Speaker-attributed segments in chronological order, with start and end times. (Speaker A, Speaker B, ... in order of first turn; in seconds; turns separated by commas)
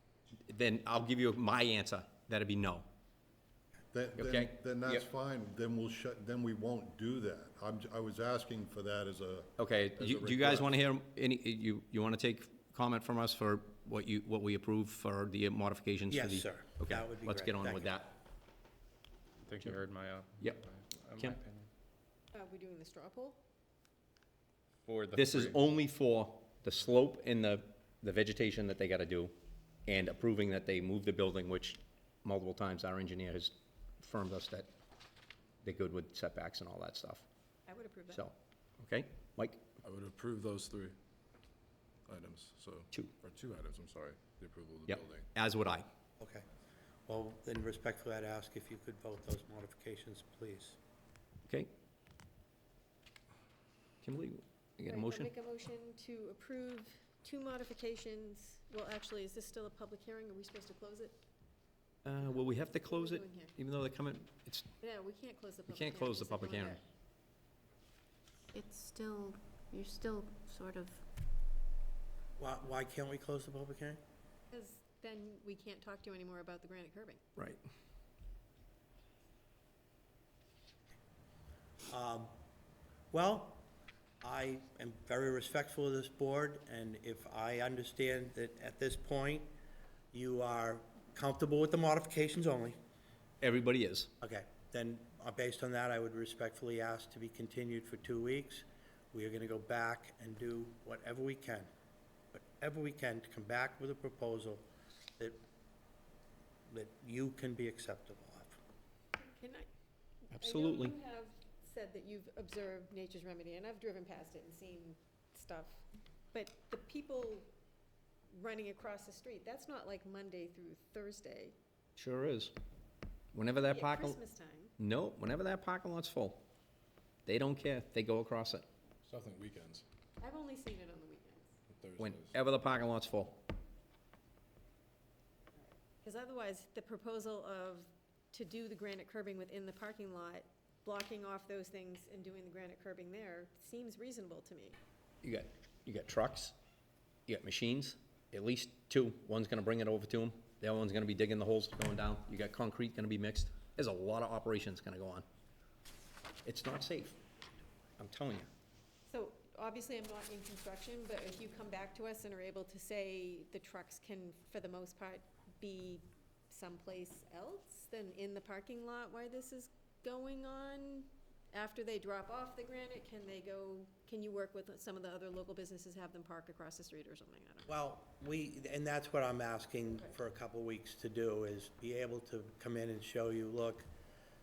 Speaker A: 0.5-2.9, Speaker B: 3.9-10.7, Speaker A: 4.2-5.0, Speaker A: 9.6-18.2, Speaker C: 16.1-17.9, Speaker D: 19.4-21.7, Speaker E: 22.3-23.4, Speaker D: 24.8-25.6, Speaker A: 25.1-29.3, Speaker A: 29.9-34.7, Speaker A: 35.6-37.2, Speaker E: 37.7-38.2, Speaker A: 38.1-39.6, Speaker F: 39.8-41.0, Speaker F: 42.1-45.3, Speaker A: 44.9-45.9, Speaker C: 46.2-46.5, Speaker C: 47.1-50.8, Speaker A: 54.0-55.3, Speaker E: 54.9-61.2, Speaker A: 62.0-64.7, Speaker E: 62.3-63.5, Speaker E: 64.8-66.8, Speaker A: 65.7-66.8, Speaker G: 68.5-71.0, Speaker C: 72.4-74.0, Speaker E: 74.5-77.2, Speaker C: 81.9-82.3, Speaker C: 83.1-83.6, Speaker C: 84.2-89.5, Speaker C: 90.1-92.8, Speaker A: 93.4-94.1, Speaker C: 94.2-101.7, Speaker C: 102.3-104.6, Speaker C: 106.7-108.6, Speaker E: 109.2-109.7, Speaker A: 110.3-111.0, Speaker E: 110.3-117.5, Speaker E: 118.3-121.5, Speaker A: 122.0-122.5, Speaker A: 123.3-124.2, Speaker E: 123.6-124.7, Speaker A: 124.8-126.4, Speaker A: 127.2-128.6, Speaker F: 129.0-129.8, Speaker E: 130.2-131.5, Speaker F: 131.7-132.3, Speaker A: 132.0-133.4, Speaker E: 136.0-144.8, Speaker A: 145.2-146.5, Speaker A: 147.3-155.2, Speaker A: 156.4-157.2, Speaker A: 158.0-158.5, Speaker E: 159.1-177.7, Speaker C: 177.7-183.9